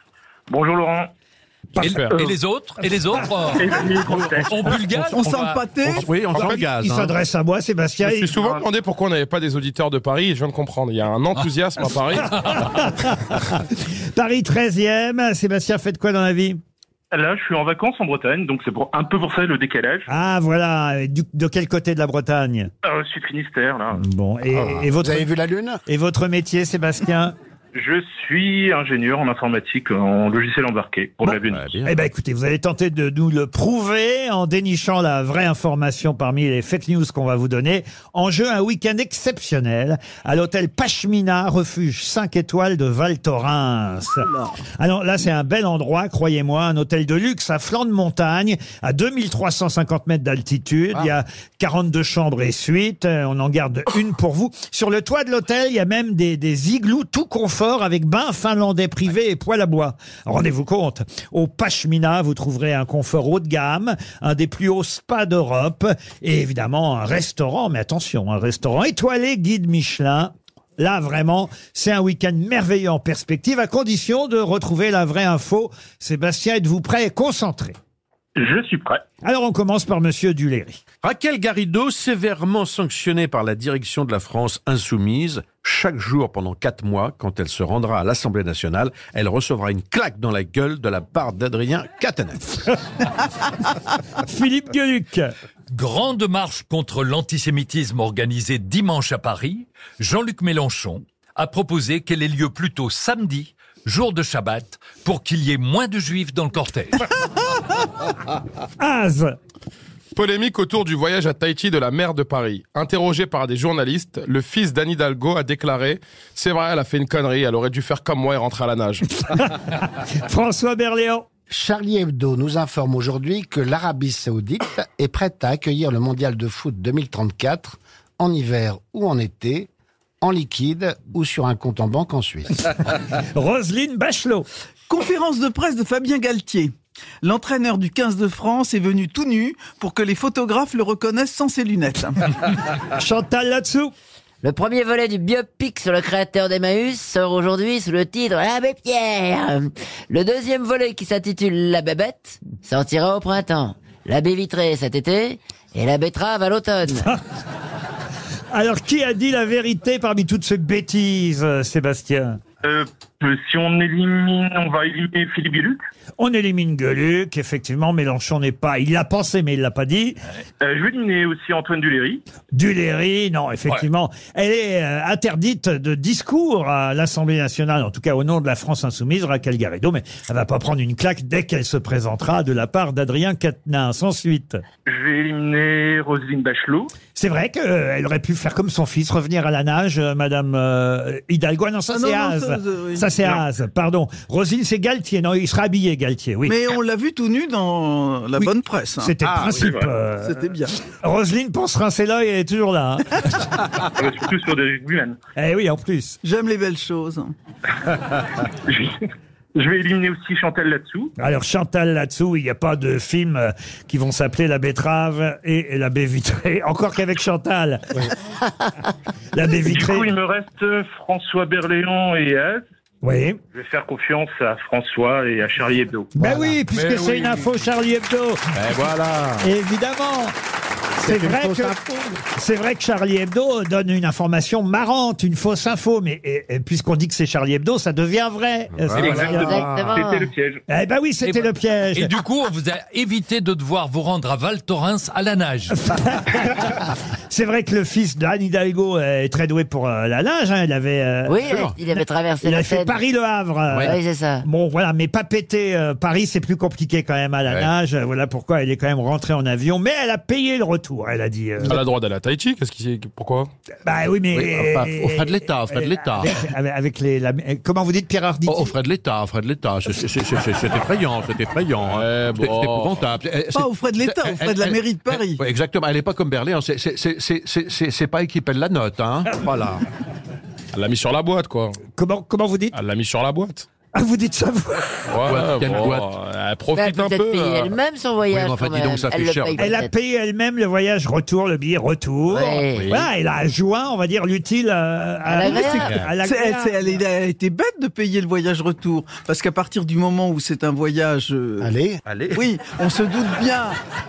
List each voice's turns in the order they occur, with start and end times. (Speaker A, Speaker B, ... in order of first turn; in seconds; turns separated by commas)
Speaker A: 0.5-1.1, Speaker B: 1.8-2.3, Speaker C: 1.8-3.6, Speaker D: 1.8-2.2, Speaker A: 3.6-4.8, Speaker C: 4.5-6.0, Speaker E: 5.0-6.0, Speaker F: 5.8-7.2, Speaker B: 6.3-8.6, Speaker D: 6.3-6.7, Speaker D: 8.0-12.5, Speaker B: 12.2-16.6, Speaker A: 17.1-20.1, Speaker B: 20.1-22.7, Speaker A: 22.8-24.0, Speaker B: 23.9-25.3, Speaker G: 24.5-25.8, Speaker B: 25.9-27.3, Speaker A: 27.7-31.7, Speaker F: 31.3-31.9, Speaker B: 31.8-77.7, Speaker E: 44.2-44.6, Speaker A: 78.4-79.0, Speaker B: 79.2-80.8, Speaker F: 81.0-92.6, Speaker B: 94.2-95.3, Speaker C: 95.7-107.1, Speaker B: 108.8-109.3, Speaker D: 110.1-119.0, Speaker B: 119.3-121.2, Speaker G: 121.5-129.7, Speaker G: 130.2-132.6, Speaker B: 133.1-134.5, Speaker E: 134.9-142.3, Speaker B: 142.9-143.9, Speaker H: 144.4-157.1, Speaker B: 158.5-162.4, Speaker A: 162.6-165.8, Speaker B: 166.2-170.2, Speaker A: 170.6-172.2, Speaker B: 172.5-184.6, Speaker A: 184.8-186.9, Speaker B: 187.1-196.6, Speaker E: 191.9-193.1, Speaker E: 196.4-199.1, Speaker B: 198.4-203.6, Speaker F: 199.2-199.7, Speaker A: 199.5-199.9, Speaker E: 200.2-200.8, Speaker A: 203.9-205.2, Speaker B: 205.4-206.2, Speaker E: 206.2-207.3, Speaker A: 208.7-209.0, Speaker A: 209.6-211.1, Speaker B: 211.2-218.1, Speaker B: 219.3-220.1, Speaker A: 219.6-222.6, Speaker B: 223.0-223.4, Speaker A: 223.5-226.1, Speaker B: 226.2-228.5, Speaker G: 226.2-226.5, Speaker F: 226.8-227.4, Speaker F: 228.5-229.5, Speaker B: 229.4-230.3, Speaker B: 231.0-239.6, Speaker G: 231.0-231.8, Speaker F: 238.7-239.7, Speaker A: 238.9-240.6, Speaker H: 239.4-240.3, Speaker B: 240.7-242.1, Speaker C: 241.2-245.8, Speaker B: 245.8-261.8, Speaker H: 251.2-253.0, Speaker F: 251.4-251.8, Speaker F: 253.7-254.0, Speaker H: 253.8-254.4, Speaker D: 261.7-263.5, Speaker B: 263.8-268.8, Speaker F: 264.3-266.4, Speaker F: 268.5-279.8, Speaker D: 271.9-273.0, Speaker E: 273.5-275.4, Speaker D: 280.7-281.8, Speaker B: 281.8-282.8, Speaker D: 282.7-283.7, Speaker B: 283.9-285.0, Speaker D: 285.1-287.7, Speaker F: 285.2-286.1, Speaker H: 286.7-289.9, Speaker F: 288.3-289.7, Speaker B: 289.6-297.0, Speaker H: 292.3-292.9, Speaker F: 292.7-293.1, Speaker H: 295.3-296.0, Speaker F: 295.7-296.1, Speaker E: 296.2-301.7, Speaker G: 301.6-302.0, Speaker F: 302.1-302.5, Speaker E: 302.3-303.8